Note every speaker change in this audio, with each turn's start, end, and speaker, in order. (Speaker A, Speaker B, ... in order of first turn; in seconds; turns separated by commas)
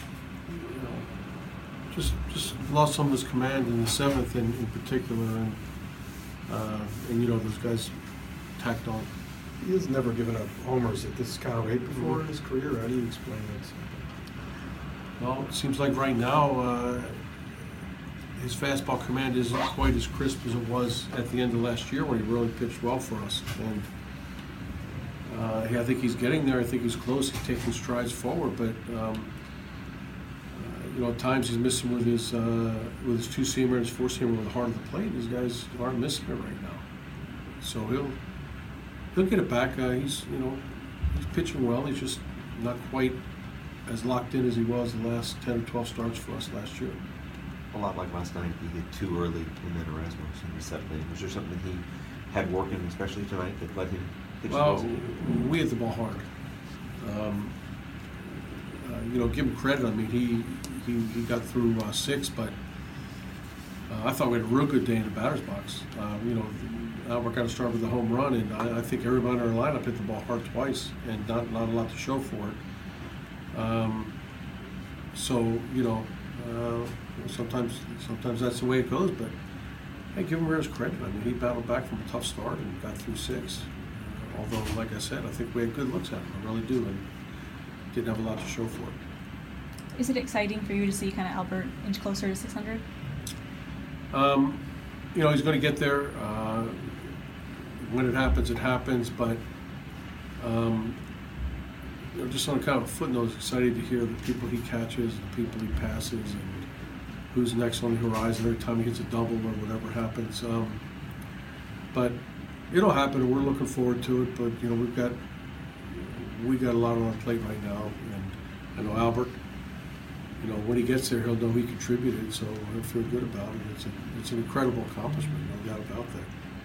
Speaker A: 0.5-1.1, Speaker A: 1.9-5.6, Speaker A: 6.5-7.9, Speaker A: 8.6-9.1, Speaker B: 9.6-11.2, Speaker A: 11.8-12.2, Speaker B: 12.4-13.6, Speaker A: 15.2-17.2, Speaker A: 18.4-23.9, Speaker A: 25.2-29.3, Speaker A: 30.5-36.8, Speaker A: 37.6-38.2, Speaker A: 39.1-43.2, Speaker A: 43.9-47.0, Speaker C: 47.7-55.0, Speaker A: 54.5-56.2, Speaker A: 57.0-57.5, Speaker A: 58.8-62.5, Speaker A: 63.9-72.6, Speaker A: 73.5-74.1, Speaker A: 75.1-79.3, Speaker A: 80.1-87.1, Speaker A: 87.9-89.0, Speaker D: 89.9-92.8, Speaker A: 94.1-94.6, Speaker A: 95.1-97.0, Speaker A: 97.8-99.4, Speaker A: 100.4-101.0, Speaker A: 102.1-106.7, Speaker A: 107.3-110.8, Speaker A: 111.9-112.2, Speaker A: 112.7-115.2, Speaker A: 115.9-119.4, Speaker A: 120.4-126.3